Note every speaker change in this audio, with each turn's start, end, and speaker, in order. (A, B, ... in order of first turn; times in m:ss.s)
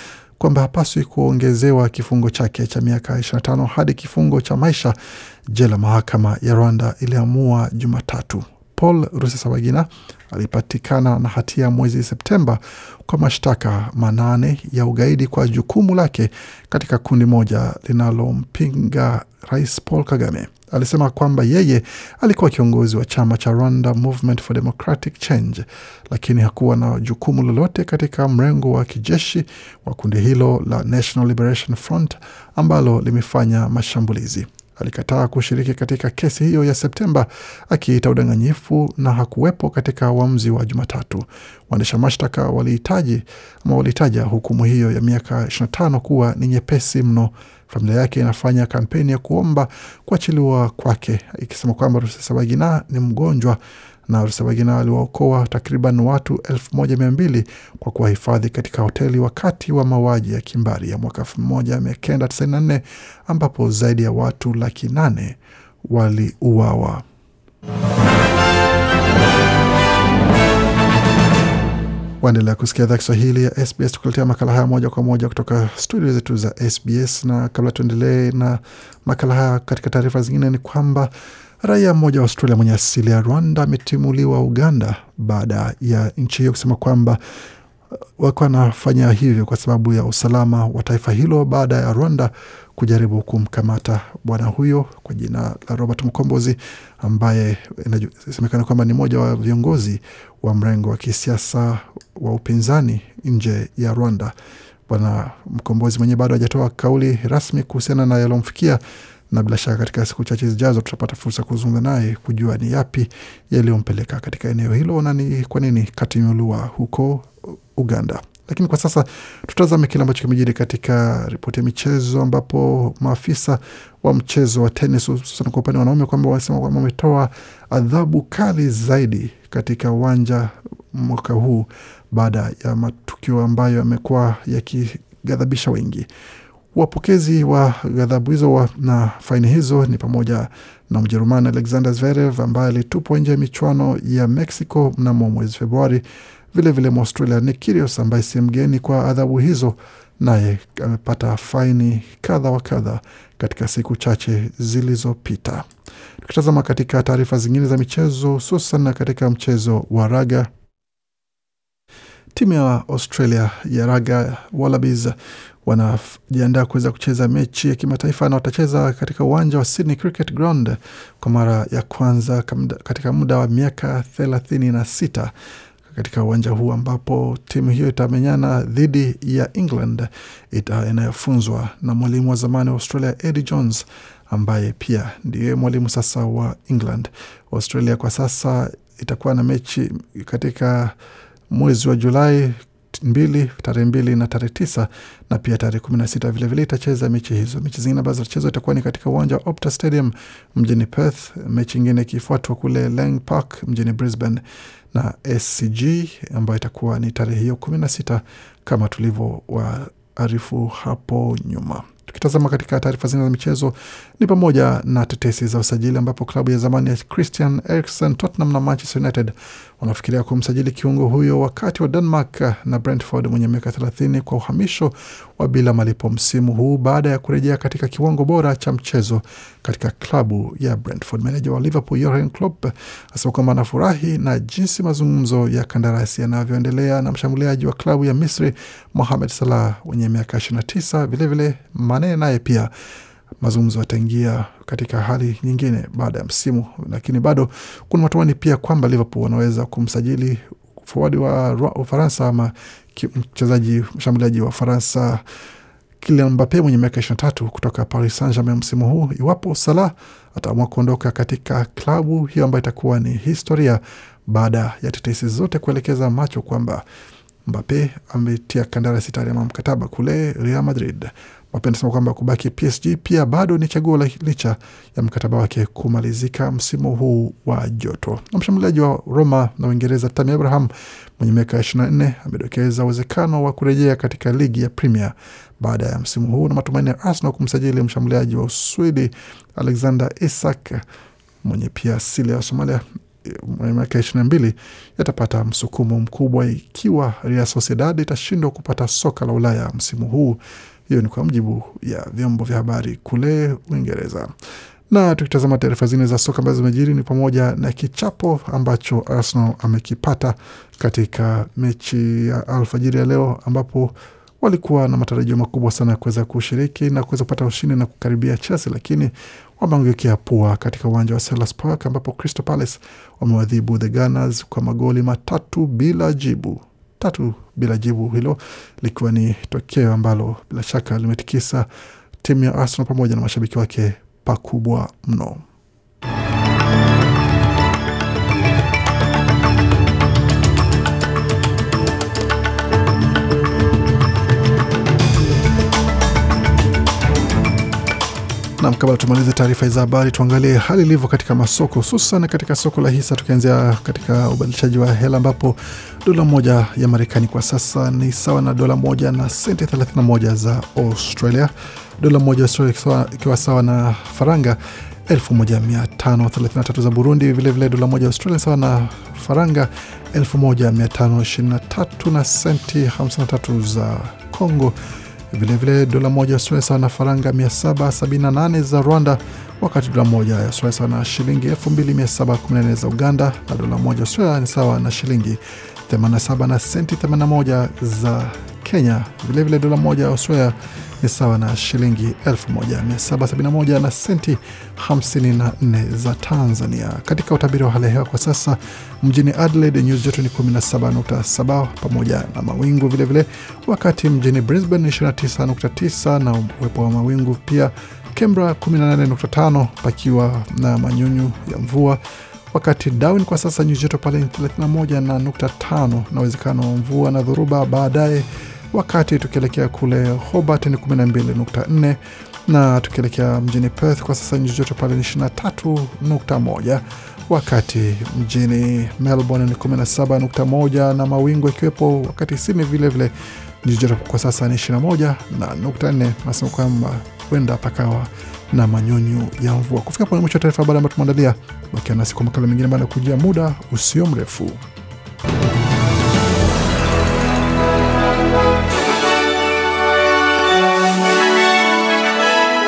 0:00.4-0:04.9 A
0:05.5-1:07.0 A
1:12.2-1:27.2 A
1:28.2-1:44.3 A
1:44.9-2:16.1 A
2:16.7-2:35.7 A
2:36.2-2:40.5 A
2:42.3-2:55.3 A
2:55.9-3:10.9 A
3:11.5-3:24.4 A
3:24.9-4:02.7 A
4:03.4-4:15.2 A
4:16.0-4:26.8 A
4:27.5-4:50.8 A
4:51.4-5:04.3 A
5:04.9-5:31.7 A
5:32.2-5:35.4 A
5:48.6-6:14.7 A
6:15.3-6:52.0 A
6:52.5-7:24.6 A